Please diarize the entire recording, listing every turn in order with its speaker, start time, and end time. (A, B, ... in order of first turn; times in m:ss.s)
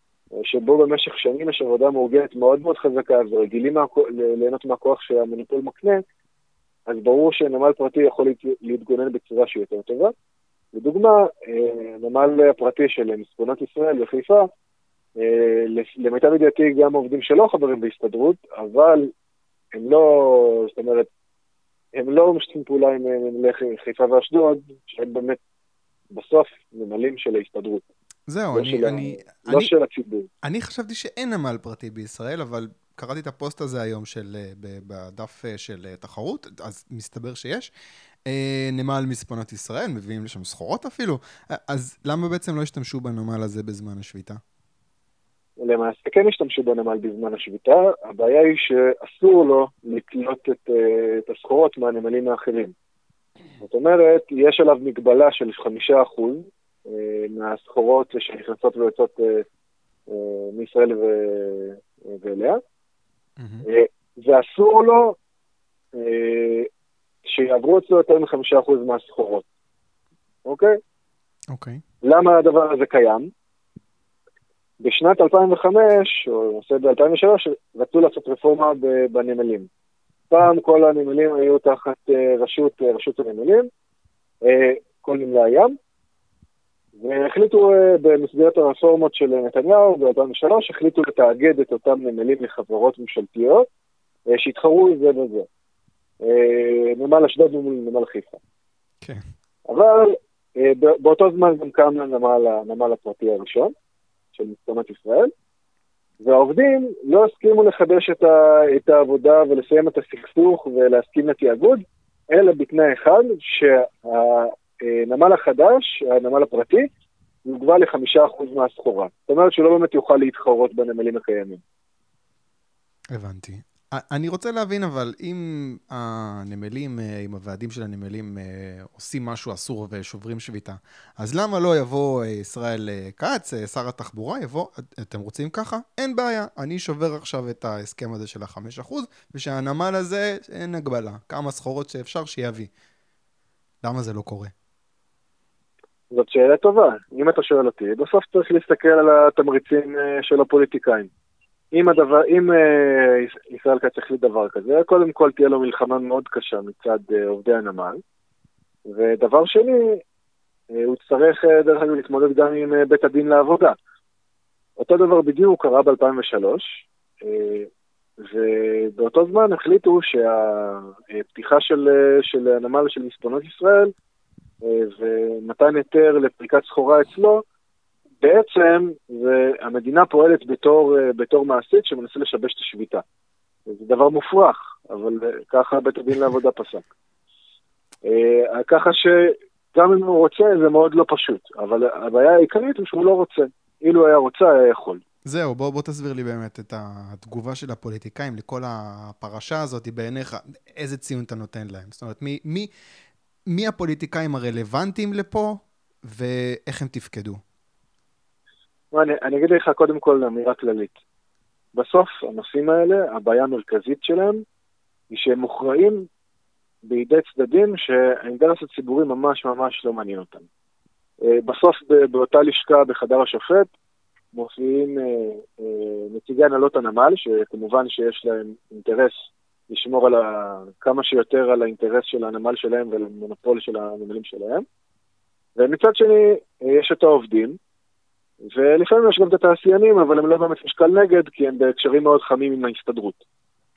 0:00.4-0:06.0 A
0:06.9-0:10.1 A
0:10.7-0:14.5 A
0:15.2-0:19.1 A
0:19.7-0:21.1 A
0:21.9-0:25.4 A
0:26.1-0:27.8 A
0:28.3-0:29.7 B
0:28.5-0:30.3 A
0:30.4-0:37.7 B
0:38.3-0:44.4 B
0:45.6-0:52.7 A
0:53.6-0:59.4 A
1:00.1-1:02.6 A
1:03.4-1:03.6 B
1:03.6-1:05.2 A
1:05.9-1:06.7 A
1:07.2-1:09.5 A
1:10.4-1:10.8 A
1:11.5-1:11.8 B
1:12.0-1:13.3 A
1:14.8-1:19.7 A
1:20.3-1:23.7 A
1:24.4-1:25.8 A
1:27.0-1:33.7 A
1:34.3-1:35.5 A
1:36.2-1:38.4 A
1:39.7-1:43.7 A
1:44.3-1:45.3 A
1:46.2-1:56.9 A
1:57.4-2:01.6 A
2:03.1-2:22.7 B
2:23.8-2:24.5 B
2:26.1-2:31.1 A
2:31.7-2:38.0 A
2:38.9-2:40.0 A
2:40.7-2:43.8 A
2:44.8-2:53.9 A
2:54.6-2:57.4 A
2:58.2-3:03.0 A
3:03.7-3:06.9 A
3:08.0-3:15.0 A
3:15.3-3:22.7 B
3:23.5-3:27.4 B
3:28.9-3:31.0 A
3:31.7-3:34.4 A
3:35.1-3:36.1 A
3:36.8-3:40.5 A
3:41.2-3:43.7 A
3:44.3-3:54.6 A
3:55.6-3:57.6 A
3:58.4-4:03.2 A